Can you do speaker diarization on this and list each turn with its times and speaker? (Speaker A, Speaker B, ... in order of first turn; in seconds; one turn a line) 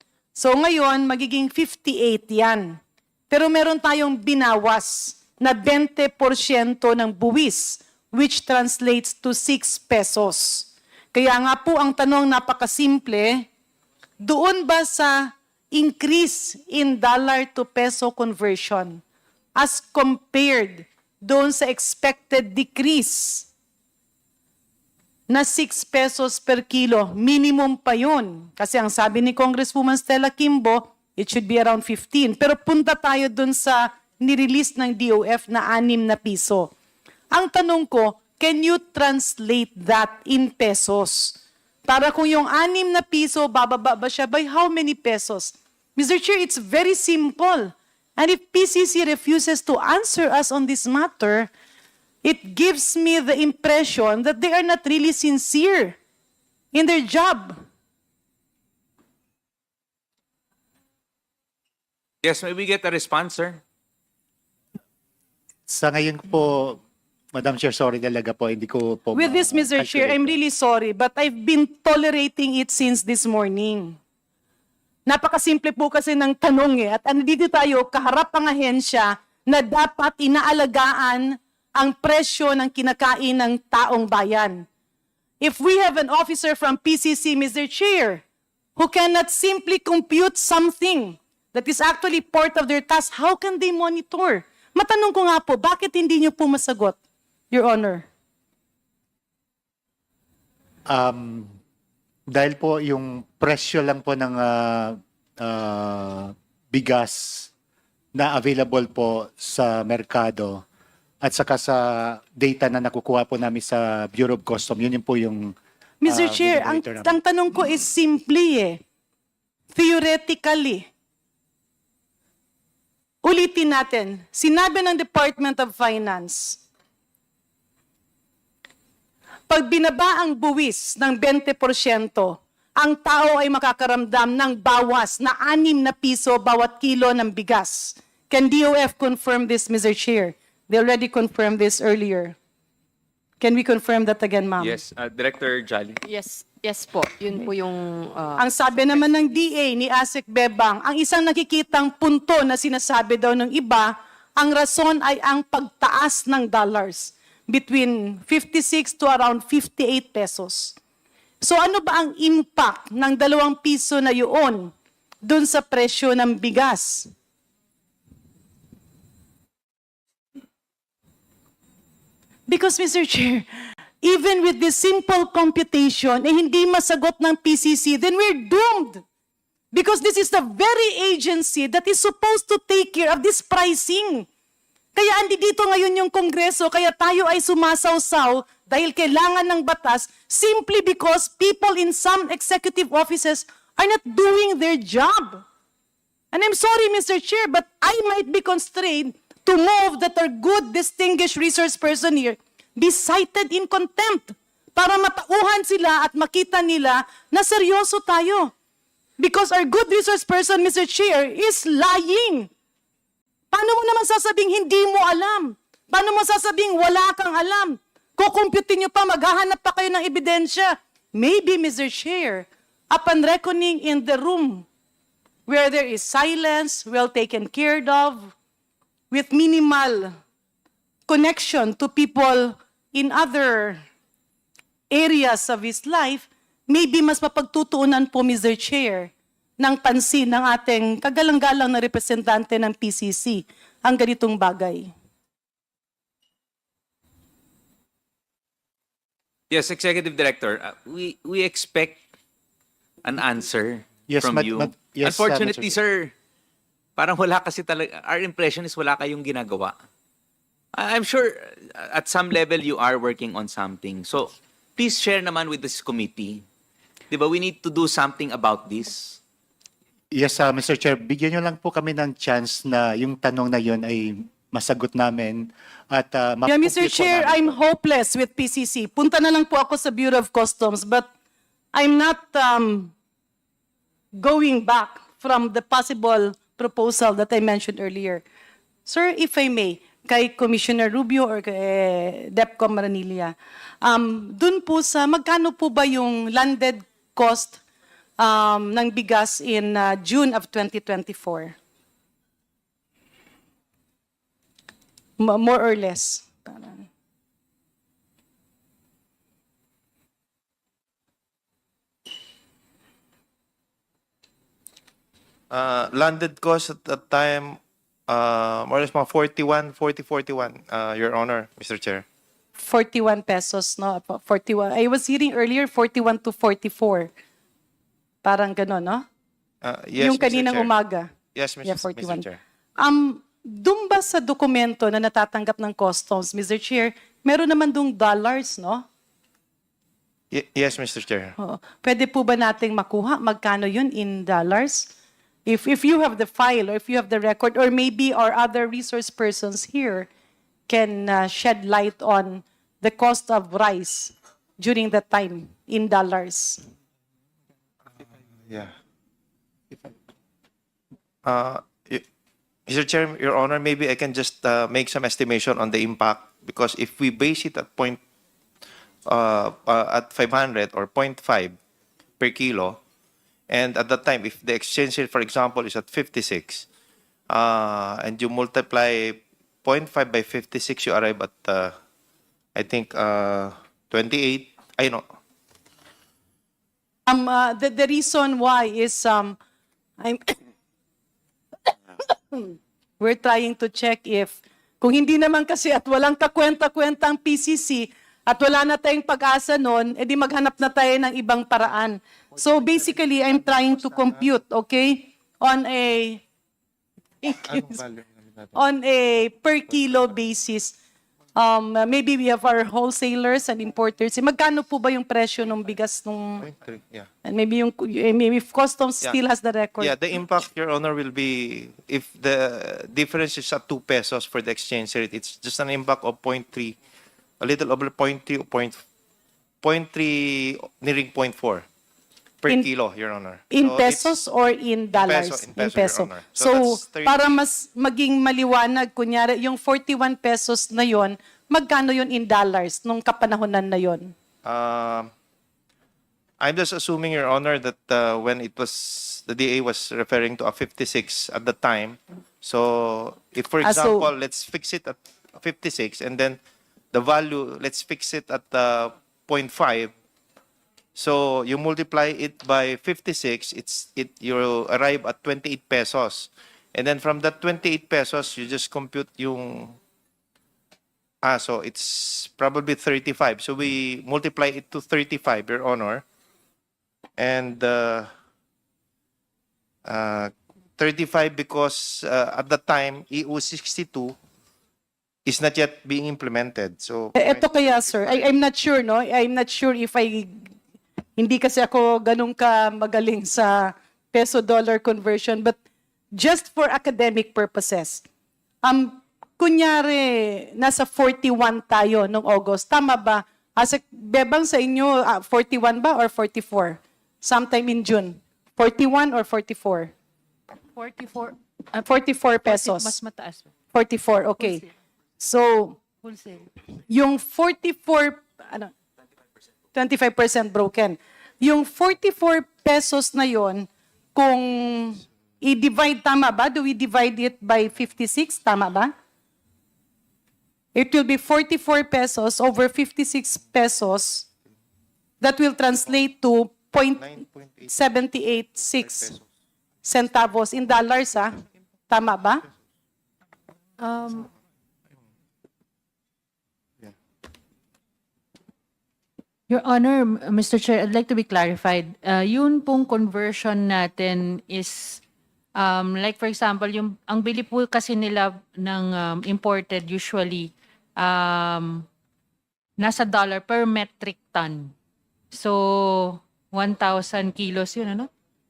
Speaker A: 0.3-13.4
Speaker A: 14.2-19.0
Speaker A: 19.5-23.5
Speaker A: 25.3-36.7
Speaker A: 37.3-51.5
Speaker A: 52.2-56.0
Speaker A: 56.7-57.6
Speaker B: 62.2-63.6
Speaker C: 65.7-66.8
Speaker C: 67.3-70.4
Speaker A: 69.1-74.0
Speaker A: 75.0-84.7
Speaker A: 85.4-88.2
Speaker A: 88.8-97.0
Speaker A: 97.5-98.0
Speaker C: 100.9-101.6
Speaker C: 102.3-107.5
Speaker C: 108.1-110.6
Speaker C: 111.2-117.2
Speaker A: 116.0-118.8
Speaker A: 119.7-120.9
Speaker A: 123.2-126.6
Speaker A: 129.5-142.3
Speaker A: 143.4-144.8
Speaker B: 144.6-146.0
Speaker D: 146.0-149.3
Speaker A: 148.4-160.8
Speaker A: 161.4-167.1
Speaker A: 172.5-173.4
Speaker A: 174.0-179.0
Speaker A: 179.7-184.3
Speaker A: 184.9-195.4
Speaker A: 196.3-208.5
Speaker A: 209.2-212.5
Speaker A: 213.5-224.7
Speaker A: 225.5-228.3
Speaker A: 229.1-230.2
Speaker A: 231.1-233.8
Speaker A: 234.9-244.9
Speaker B: 249.5-252.0
Speaker B: 253.0-256.1
Speaker C: 254.1-255.7
Speaker B: 257.0-259.7
Speaker B: 260.7-266.4
Speaker B: 267.1-269.2
Speaker C: 270.1-277.6
Speaker A: 276.4-281.1
Speaker A: 281.7-282.9
Speaker A: 284.1-288.2
Speaker A: 288.9-297.6
Speaker A: 298.2-301.5
Speaker A: 305.2-306.8
Speaker E: 315.5-322.0
Speaker A: 322.6-327.1
Speaker A: 328.2-329.1
Speaker E: 329.6-330.7
Speaker A: 330.0-331.1
Speaker E: 331.3-332.4
Speaker A: 331.6-332.2
Speaker A: 332.8-338.8
Speaker E: 340.3-341.4
Speaker A: 341.4-344.9
Speaker A: 345.4-350.1
Speaker A: 350.7-356.6
Speaker E: 358.4-358.7
Speaker E: 361.2-362.0
Speaker E: 362.7-368.0
Speaker E: 369.1-371.6
Speaker E: 372.2-372.8
Speaker E: 373.5-376.6
Speaker E: 377.3-381.7
Speaker E: 382.5-385.0
Speaker A: 387.1-389.4
Speaker A: 390.0-390.4
Speaker A: 392.0-406.2
Speaker A: 407.2-407.8
Speaker E: 407.5-408.5
Speaker A: 408.5-410.7
Speaker A: 411.3-416.5
Speaker E: 416.4-417.1
Speaker A: 417.2-419.9
Speaker E: 419.8-426.8
Speaker E: 427.4-428.8
Speaker E: 429.6-431.6
Speaker E: 432.4-434.2
Speaker A: 433.5-444.1
Speaker E: 434.9-437.2
Speaker E: 444.4-445.1
Speaker E: 446.4-456.4
Speaker A: 453.6-454.1
Speaker E: 456.9-459.9
Speaker E: 460.9-469.8
Speaker E: 471.2-476.0
Speaker E: 477.2-478.1
Speaker E: 479.8-484.1
Speaker E: 485.2-488.2
Speaker A: 487.1-490.5
Speaker A: 491.2-495.6
Speaker A: 496.1-498.0
Speaker A: 498.6-509.9
Speaker F: 510.7-513.5
Speaker A: 511.8-513.0
Speaker A: 513.7-514.6
Speaker F: 514.4-514.7
Speaker A: 515.2-515.8
Speaker F: 516.0-516.5
Speaker A: 516.9-518.7
Speaker A: 519.7-528.9
Speaker A: 530.7-534.2
Speaker A: 535.2-537.0
Speaker E: 537.0-537.7
Speaker A: 537.7-539.1
Speaker A: 539.8-541.3
Speaker A: 541.9-542.4
Speaker F: 543.8-544.3
Speaker F: 549.5-555.0
Speaker F: 555.5-561.9
Speaker F: 562.8-564.7
Speaker F: 565.3-568.1